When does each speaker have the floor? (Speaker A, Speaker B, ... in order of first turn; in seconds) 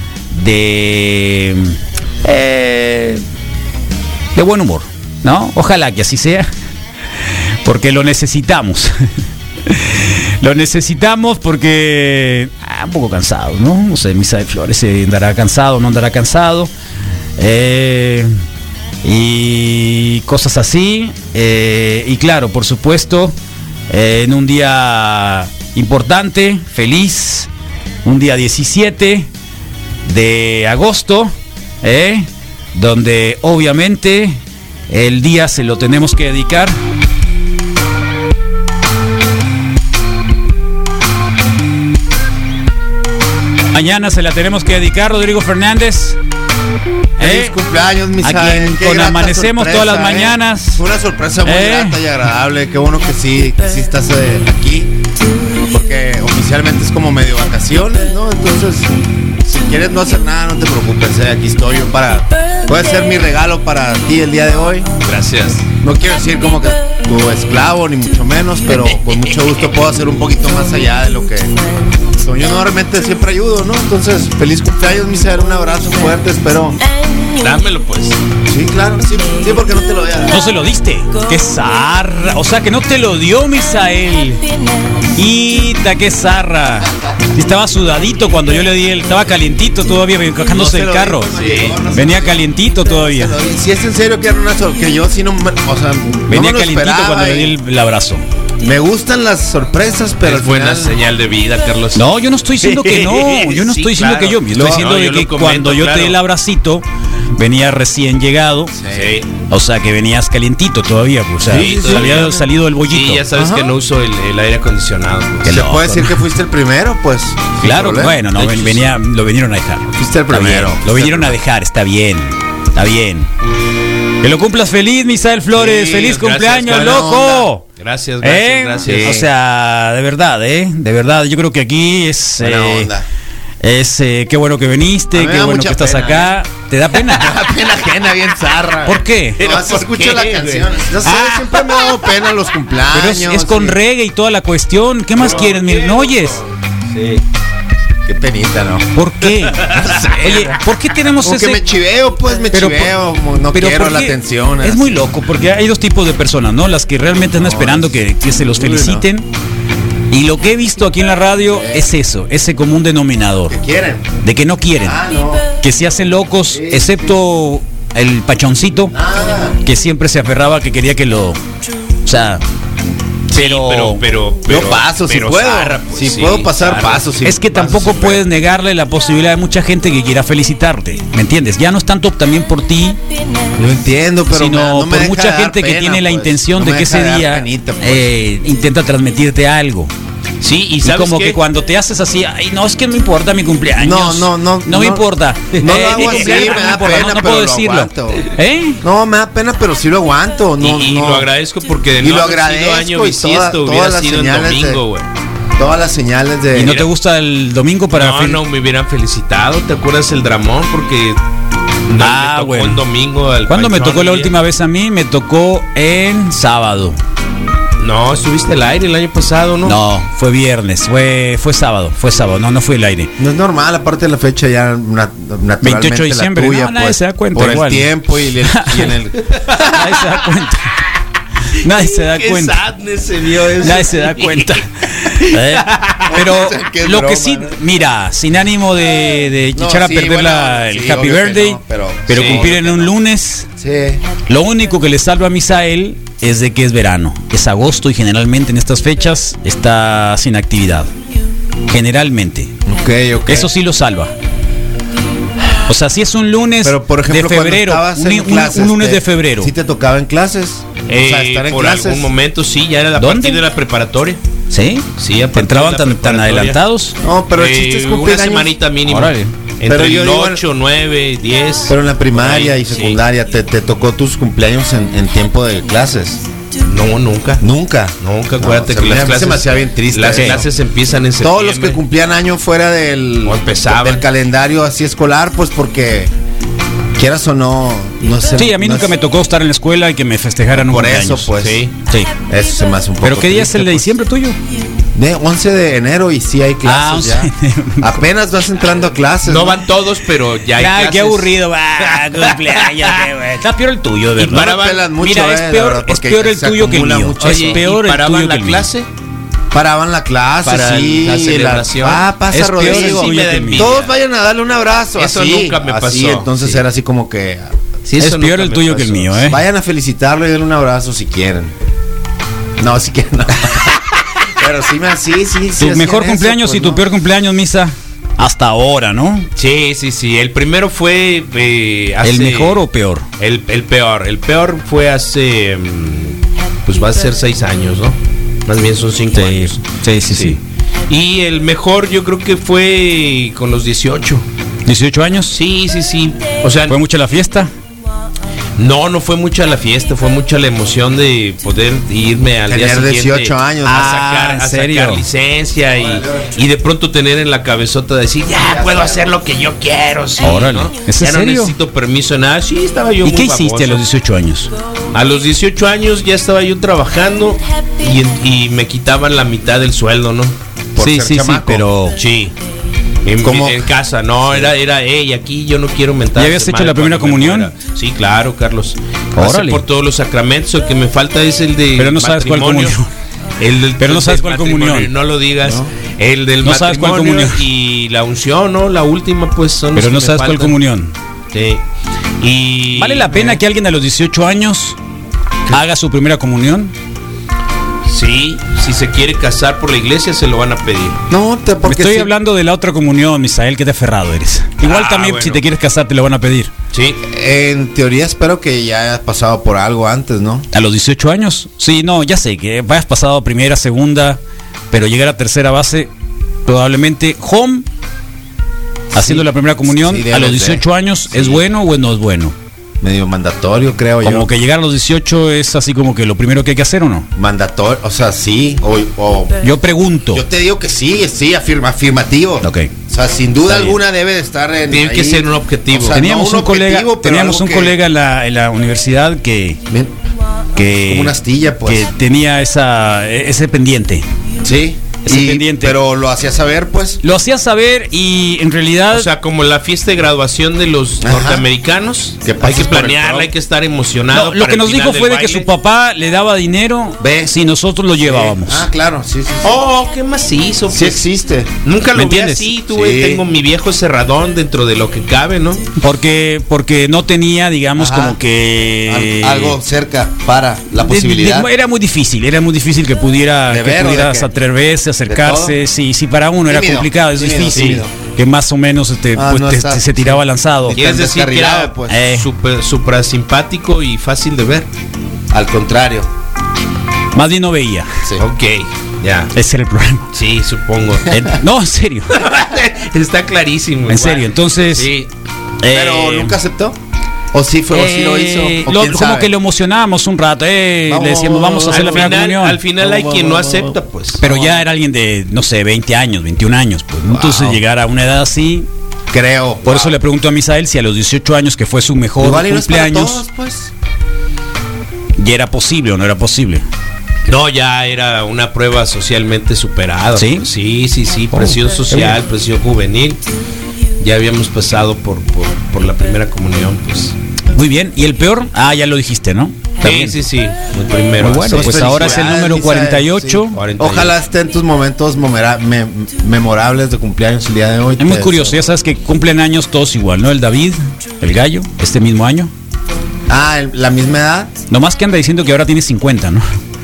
Speaker A: 0.3-3.2, 4.3-6.5, 7.6-8.9, 9.7-16.7, 17.4-18.3, 19.0-23.3, 23.9-27.5, 28.1-29.3, 30.1-36.8, 43.7-46.2, 47.2-47.6, 48.2-50.8, 51.5-52.0, 80.3-84.4, 85.2-91.3, 91.9-93.4, 96.3-98.2, 102.0-106.8, 107.4-108.7, 109.5-113.2, 115.5-116.2, 117.6-123.3, 124.2-127.6, 128.2-132.9, 133.6-137.4, 138.8-139.4, 141.1-141.5, 142.9-146.4, 148.9-151.6, 152.5-153.0, 153.5-159.3, 160.1-163.6, 164.2-165.0, 165.6-168.9, 169.6-171.4, 172.1-172.4, 173.3-174.0, 177.2-183.0, 184.3-189.9, 190.8-198.8, 206.5-208.4, 212.0-212.8, 213.5-217.0, 219.7-223.1, 225.6-228.9, 229.6-230.7, 231.6-232.6, 233.6-243.5, 244.3-250.9, 251.7-252.5, 253.3-254.1, 255.7-259.5, 263.0-263.4, 264.5-267.0, 268.9-269.3, 288.4-291.3, 293.0-294.4, 296.6-298.0, 300.6-308.6, 312.3-313.7, 318.0-319.4, 325.6-329.3, 332.0-333.1, 339.1-340.4, 344.6-345.4, 346.7-347.5, 353.6-355.0, 360.2-361.5, 363.0-364.5, 370.8-372.0, 376.2-377.5, 379.1-379.6, 381.8-382.9, 383.8-384.9, 386.4-387.4, 389.8-390.9, 392.8-394.8, 395.5-396.7, 401.6-406.5, 410.5-414.2, 414.7-415.9, 416.5-417.6, 418.9-422.4, 424.0-427.1, 429.4-430.2, 432.4-432.7, 433.5-433.8, 435.9-439.6, 440.6-444.1, 445.1-445.8, 447.0-449.1, 454.1-458.7, 461.9-462.5, 465.8-469.6, 470.8-480.8, 481.9-482.2, 487.1-488.0, 489.3-490.1, 491.1-492.1, 493.9-494.9, 495.6-496.4, 497.7-502.6, 504.2-508.7, 509.6-513.2, 515.2-516.6, 520.1-520.5, 521.3-522.2, 527.5-530.2, 531.2-533.6, 538.0-542.5, 544.7-546.4
Speaker B: 47.2-54.9, 55.6-58.9, 59.4-64.9, 65.8-71.5, 72.2-76.8, 78.5-80.4, 90.5-97.6, 98.6-101.0, 108.8-109.1, 111.5-112.4, 113.3-113.7, 115.5-118.2, 119.9-121.4, 125.6-127.5, 128.8-129.3, 132.4-133.1, 135.1-136.3, 136.9-143.8, 148.1-148.9, 149.9-150.4, 151.2-155.0, 157.4-157.9, 158.6-159.1, 161.5-161.9, 163.5-164.2, 164.8-165.5, 166.5-167.2, 168.9-169.6, 174.5-178.2, 183.6-188.1, 193.8-198.3, 198.8-201.3, 202.0-204.8, 205.6-206.8, 223.2-229.7, 236.1-237.6, 239.6-242.9, 243.6-244.0, 252.7-253.5, 256.6-262.1, 267.0-268.6, 269.6-270.4, 271.7-276.2, 277.4-280.5, 281.2-286.1, 287.0-288.9, 290.5-291.6, 292.3-293.9, 294.9-299.6, 304.3-307.6, 309.5-317.5, 319.3-321.5, 322.6-326.8, 352.5-354.0, 355.8-356.4, 358.4-359.2, 370.8-371.7, 373.2-373.6, 401.1-402.1, 407.0-410.5, 418.9-421.4, 422.8-424.3, 427.1-429.5, 430.1-437.8, 440.8-441.9, 444.4-447.0, 451.0-451.4, 452.2-453.3, 457.0-457.4, 458.0-459.6, 460.7-461.5, 462.7-463.2, 467.8-468.2, 468.9-471.5, 473.5-474.3, 475.1-475.6, 476.5-477.9, 479.1-482.0, 485.3-486.1, 495.7-496.8, 497.3-499.3, 500.9-502.1, 502.8-503.8, 507.1-507.6, 509.1-509.9, 512.2-513.7, 531.5-538.6, 543.3-544.5
Speaker C: 65.0-65.7, 77.4-78.2, 91.3-91.8, 100.2-102.0, 102.6-106.2, 108.9-109.3, 111.5-115.5, 118.4-118.8, 125.8-127.2, 127.8-129.2, 139.4-140.7, 145.2-147.2, 149.6-150.5, 173.3-177.1, 190.4-191.4, 195.8-196.5, 200.6-205.1, 207.9-211.2, 211.9-214.3, 217.8-219.8, 231.7-234.6, 235.2-236.2, 242.1-242.5, 260.9-264.2, 265.0-266.6, 267.4-273.0, 276.6-277.4, 278.0-281.8, 283.2-284.1, 291.4-291.7, 299.2-303.1, 304.2-304.8, 307.2-308.9, 310.4-312.1, 312.6-313.9, 315.0-316.6, 317.9-319.3, 329.4-332.6, 333.2-344.3, 345.3-346.8, 348.6-363.8, 364.9-370.4, 372.0-372.4, 373.0-382.8, 383.4-390.6, 391.3-391.6, 392.2-393.4, 397.9-401.0, 404.6-405.4, 406.7-407.0, 434.7-436.0, 448.9-455.5, 459.4-461.0, 461.6-465.6, 477.5-477.8, 480.7-484.7, 488.2-489.3, 490.1-491.1, 492.1-495.1, 501.7-504.6, 517.3-523.2, 524.0-527.1, 529.8-532.3, 533.5-534.1